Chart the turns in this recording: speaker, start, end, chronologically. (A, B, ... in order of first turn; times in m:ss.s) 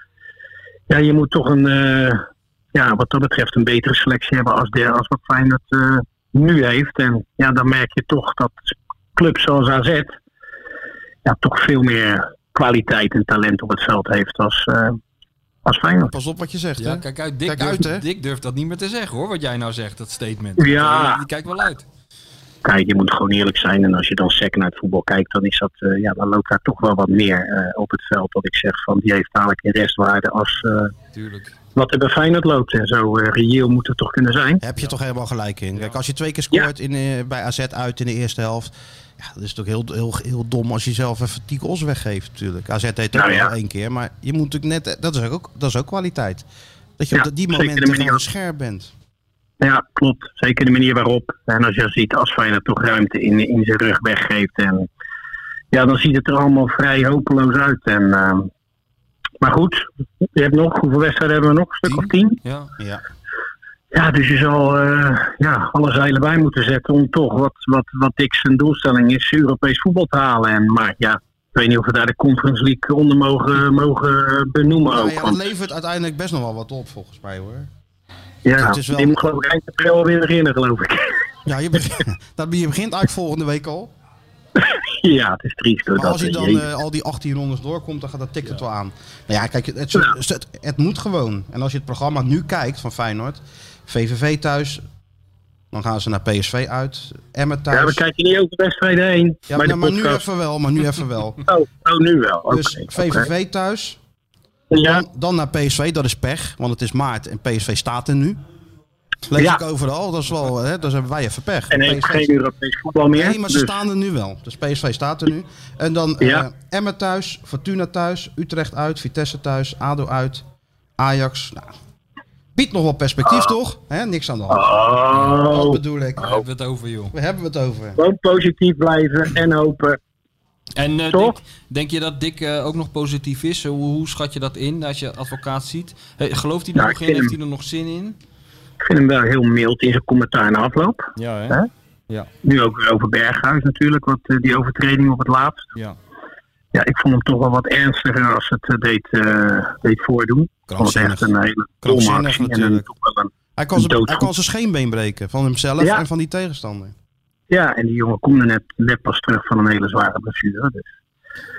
0:00.9-0:10.1 A
0:11.2-0:15.0 A
0:15.6-0:16.1 A
0:16.1-0:18.0 B
0:16.8-0:21.8 C
0:20.6-0:21.2 A
0:22.6-0:30.9 A
0:31.1-0:31.5 C
0:31.7-0:34.6 A
0:34.6-0:46.4 B
0:43.1-0:43.5 A
0:47.0-0:48.9 B
0:47.1-0:48.2 A
0:49.6-0:54.9 A
0:55.7-0:58.5 A
0:59.4-1:02.4 A
1:01.9-1:02.7 C
1:03.9-1:15.4 A
1:14.9-1:17.7 B
1:18.4-1:21.2 A
1:18.6-1:19.2 B
1:21.4-1:23.9 B
1:24.6-1:26.6 A
1:25.9-1:34.8 B
1:35.7-1:38.0 B
1:37.7-1:40.2 A
1:39.5-1:41.4 B
1:41.4-1:43.2 A
1:42.5-1:44.0 B
1:44.7-1:45.0 A
1:44.8-1:48.4 B
1:49.3-1:52.3 B
1:49.4-1:49.6 A
1:51.7-1:53.8 A
1:53.1-2:00.4 B
2:01.0-2:01.7 B
2:02.5-2:06.3 B
2:04.5-2:06.4 A
2:05.1-2:05.4 C
2:06.2-2:07.1 C
2:07.1-2:08.0 B
2:08.0-2:10.0 A
2:10.8-2:18.2 C
2:11.1-2:11.3 A
2:16.8-2:17.3 A
2:18.8-2:21.7 A
2:21.2-2:22.3 C
2:22.4-2:25.6 A
2:26.7-2:34.3 A
2:30.7-2:32.9 B
2:33.6-2:36.9 B
2:37.5-2:40.8 A